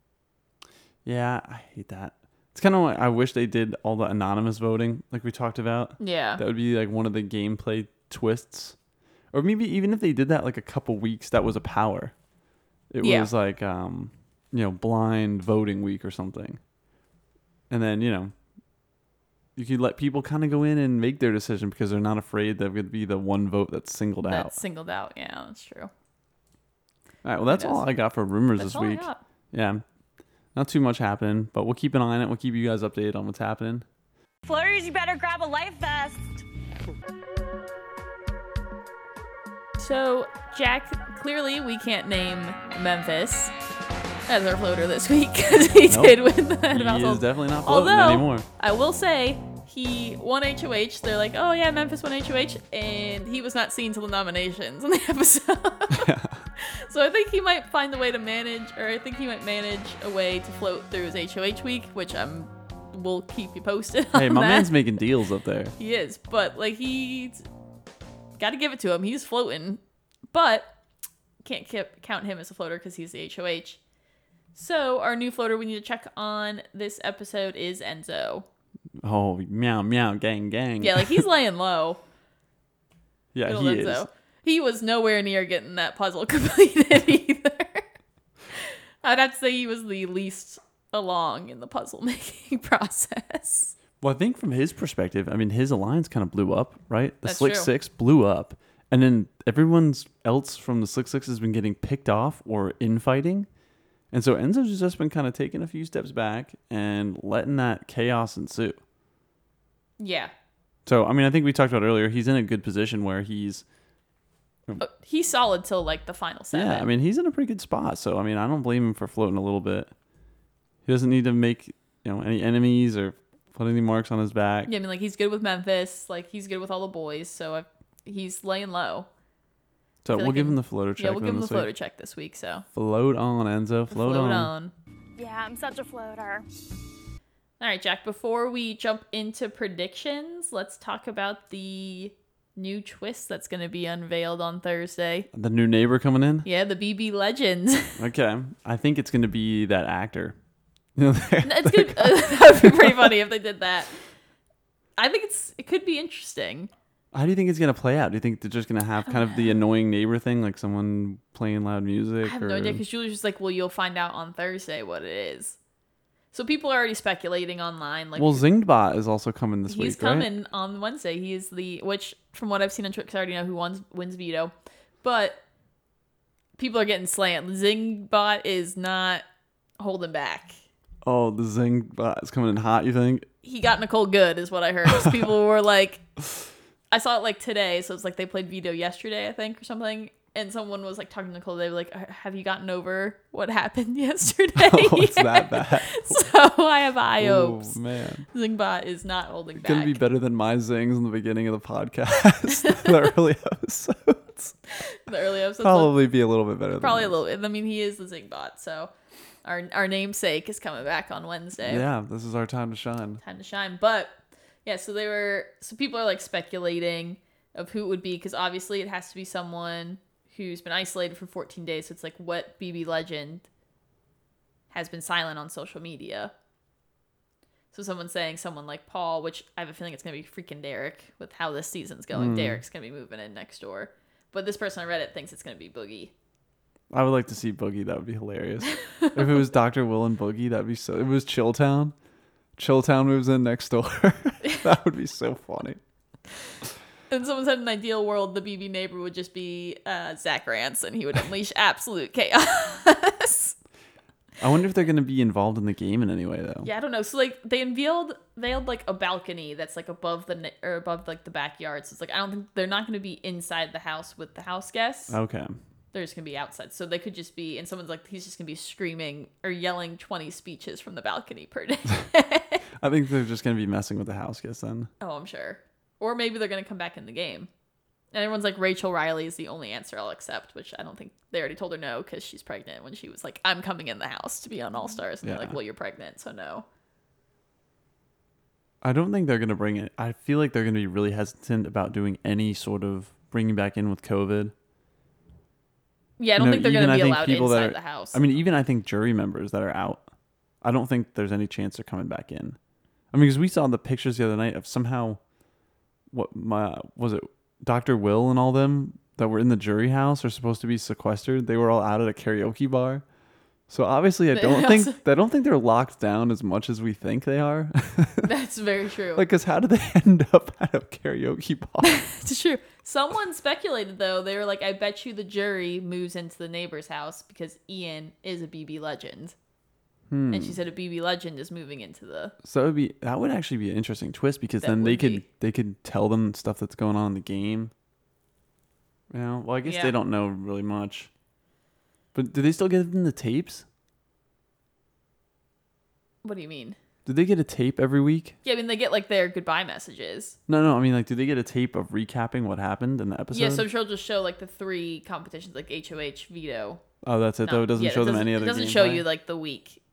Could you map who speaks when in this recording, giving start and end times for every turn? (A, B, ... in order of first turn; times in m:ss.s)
0:01.0-0:08.8 A
0:06.0-0:06.4 B
0:09.3-0:12.1 A
0:12.9-0:16.6 A
0:13.0-0:13.3 B
0:17.7-0:18.3 A
0:19.6-0:24.6 A
0:24.2-0:25.9 B
0:27.2-0:29.8 A
0:27.5-0:27.8 B
0:28.6-0:29.2 B
0:30.6-0:33.8 A
0:34.4-0:36.4 C
0:39.8-0:43.5 B
0:44.3-1:04.8 B
0:45.9-0:48.5 A
0:55.9-0:56.4 A
1:04.1-1:05.8 A
1:05.8-1:07.4 B
1:08.4-1:09.8 B
1:10.3-1:10.7 B
1:11.4-1:13.8 B
1:14.6-1:18.5 B
1:19.0-1:21.2 A
1:20.8-1:22.0 B
1:23.3-1:24.1 A
1:23.4-1:27.9 B
1:28.5-1:33.8 B
1:34.0-1:43.5 A
1:37.2-1:37.7 B
1:44.1-1:48.8 A
1:50.0-1:50.3 B
1:50.9-1:53.6 A
1:54.8-1:56.9 B
1:56.5-1:59.9 A
2:00.8-2:04.7 A
2:04.7-2:09.1 B
2:10.0-2:11.7 A
2:10.1-2:12.6 B
2:12.7-2:14.5 A
2:13.9-2:14.7 B
2:15.2-2:16.5 C
2:17.6-2:25.3 B
2:25.3-2:26.5 A
2:26.4-2:28.0 B
2:28.0-2:30.4 A
2:31.0-2:33.1 A
2:31.4-2:33.9 B
2:35.0-2:36.7 B
2:37.1-2:42.8 A
2:42.2-2:45.6 B
2:46.3-2:48.4 B
2:48.2-2:50.3 A
2:49.7-2:54.5 B
2:55.0-2:55.4 B
2:56.6-2:59.2 B
2:59.8-3:00.6 B
3:01.0-3:03.3 A
3:03.4-3:06.0 B
3:06.9-3:17.8 B
3:14.6-3:16.2 A
3:17.2-3:18.2 A
3:18.3-3:20.0 B
3:19.6-3:24.6 A
3:24.7-3:25.9 B
3:25.6-3:27.2 A
3:26.8-3:28.9 B
3:29.4-3:31.9 B
3:31.6-3:33.2 A
3:33.2-3:43.5 B
3:44.7-3:46.3 B
3:47.7-3:56.1 B
3:52.1-3:52.6 A
3:56.9-4:01.9 A
3:58.8-3:59.1 B
4:02.6-4:05.8 A
4:07.1-4:13.6 B
4:14.4-4:16.7 A
4:16.6-4:25.2 B
4:25.1-4:25.6 A
4:25.9-4:32.6 B
4:32.8-4:34.9 A
4:35.0-4:37.5 B
4:38.1-4:46.7 B
4:45.2-4:45.6 A
4:48.8-4:54.5 A
4:56.2-4:58.2 B
4:56.4-5:00.0 A
5:00.6-5:02.6 A
5:03.1-5:05.2 A
5:06.1-5:13.0 A
5:13.7-5:18.3 A
5:14.3-5:15.0 B
5:18.2-5:19.3 B
5:19.2-5:22.0 A
5:21.8-5:29.4 B
5:30.1-5:30.6 A
5:30.3-5:32.4 B
5:32.4-5:37.7 A
5:34.6-5:35.2 B
5:39.1-5:41.1 A
5:39.6-5:40.0 B
5:42.1-5:43.6 A
5:46.2-5:46.8 B
5:47.1-5:48.4 A
5:48.4-5:50.4 B
5:50.5-5:53.7 A
5:53.3-5:56.8 B
5:57.0-5:59.0 A
5:57.4-5:59.8 B